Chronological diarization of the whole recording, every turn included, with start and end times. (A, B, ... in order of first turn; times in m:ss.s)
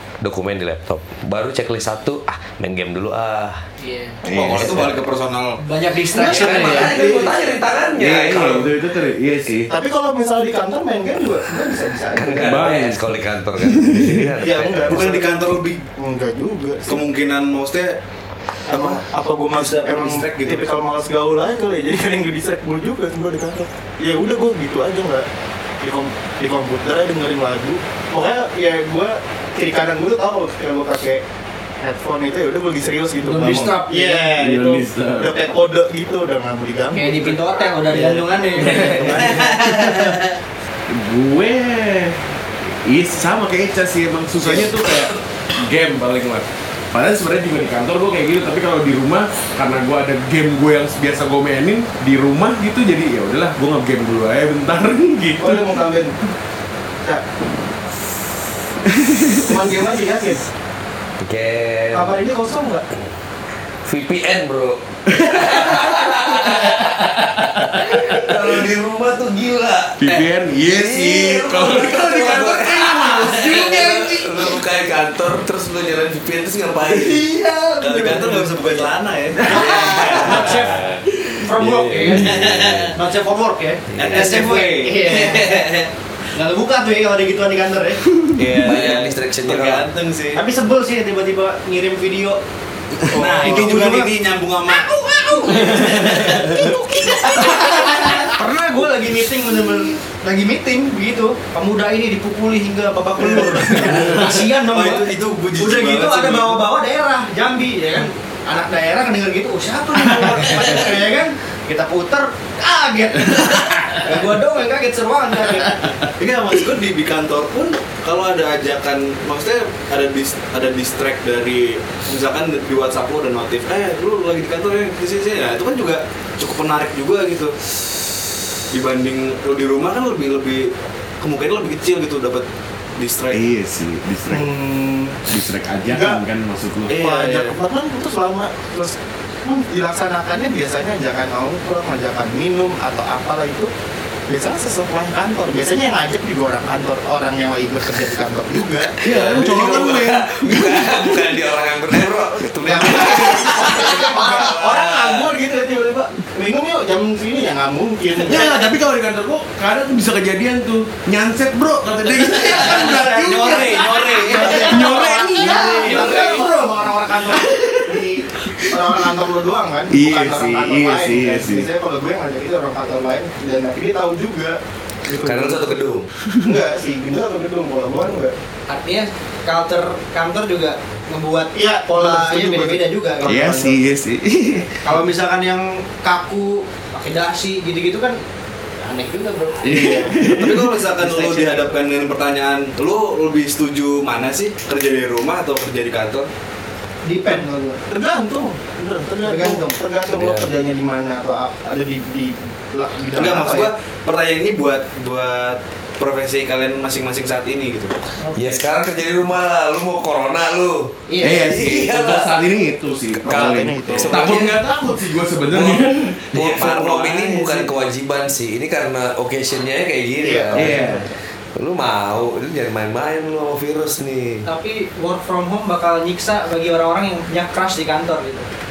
0:00.2-0:03.6 A
0:03.8-0:04.2 B
0:04.2-0:05.6 C
0:04.3-0:04.9 D
0:04.3-0:04.9 A
0:05.6-0:07.0 B
0:06.1-0:07.3 E
0:06.2-0:08.7 A
0:07.9-0:09.7 D
0:09.6-0:12.8 E
0:12.1-0:15.0 A
0:12.4-0:13.0 D
0:13.6-0:14.3 D
0:14.4-0:15.8 C
0:14.4-0:15.4 E
0:15.9-0:17.0 E
0:16.8-0:18.0 C
0:18.7-0:25.3 E
0:18.7-0:19.0 C
0:19.5-0:20.6 C
0:25.8-0:31.2 E
0:31.8-0:34.4 E
0:33.2-0:34.8 B
0:34.3-0:35.4 D
0:35.2-0:39.7 E
0:36.9-0:40.2 B
0:38.8-0:39.2 D
0:39.1-0:39.5 C
0:40.9-0:42.3 D
0:42.8-0:55.7 D
0:44.4-0:44.7 E
0:55.4-0:56.2 E
0:58.9-0:59.5 D
0:59.4-1:00.5 E
1:01.2-1:02.1 A
1:01.9-1:02.8 E
1:03.8-1:17.3 A
1:05.1-1:06.5 D
1:10.0-1:14.6 D
1:16.9-1:17.3 D
1:17.3-1:18.9 B
1:17.8-1:20.8 C
1:19.4-1:22.4 B
1:19.5-1:21.0 A
1:21.0-1:22.6 D
1:21.6-1:22.9 A
1:22.1-1:23.0 C
1:22.9-1:25.7 B
1:23.9-1:24.4 A
1:24.0-1:25.9 C
1:26.3-1:28.1 B
1:28.3-1:30.4 C
1:28.6-1:29.9 A
1:30.3-1:32.4 B
1:33.1-1:34.0 E
1:33.1-1:38.2 C
1:33.1-1:34.1 B
1:34.7-1:56.0 B
1:36.6-1:37.0 E
1:43.3-1:46.6 C
1:50.1-1:50.8 C
1:56.1-2:07.5 C
2:08.7-2:13.4 C
2:13.3-2:14.5 D
2:14.3-2:15.2 E
2:15.2-2:17.0 D
2:15.8-2:16.2 E
2:16.9-2:17.5 C
2:16.9-2:23.7 E
2:24.3-2:29.4 E
2:29.0-2:35.0 A
2:29.0-2:31.2 D
2:29.1-2:29.9 C
2:32.6-2:38.7 E
2:33.8-2:34.6 B
2:38.2-2:46.5 D
2:42.2-2:46.5 B
2:42.3-2:45.0 C
2:44.0-2:55.8 E
2:47.3-2:48.0 D
2:49.9-2:51.7 D
2:55.2-2:56.1 A
2:56.4-2:58.3 E
2:58.7-3:03.3 B
3:01.5-3:03.8 E
3:03.2-3:04.8 D
3:04.8-3:08.2 B
3:08.8-3:10.1 B
3:09.6-3:10.8 D
3:09.7-3:10.1 E
3:10.2-3:16.3 C
3:11.0-3:11.8 B
3:17.0-3:17.8 B
3:17.2-3:23.7 E
3:19.2-3:19.8 B
3:20.1-3:20.5 A
3:23.1-3:28.0 C
3:28.2-3:28.6 B
3:28.3-3:32.4 A
3:31.1-3:31.6 B
3:31.2-3:36.3 D
3:33.2-3:34.6 A
3:33.2-3:34.3 E
3:35.5-3:35.8 C
3:36.3-3:44.4 A
3:36.3-3:37.7 C
3:40.2-3:41.0 E
3:40.5-3:41.1 D
3:44.4-3:48.5 B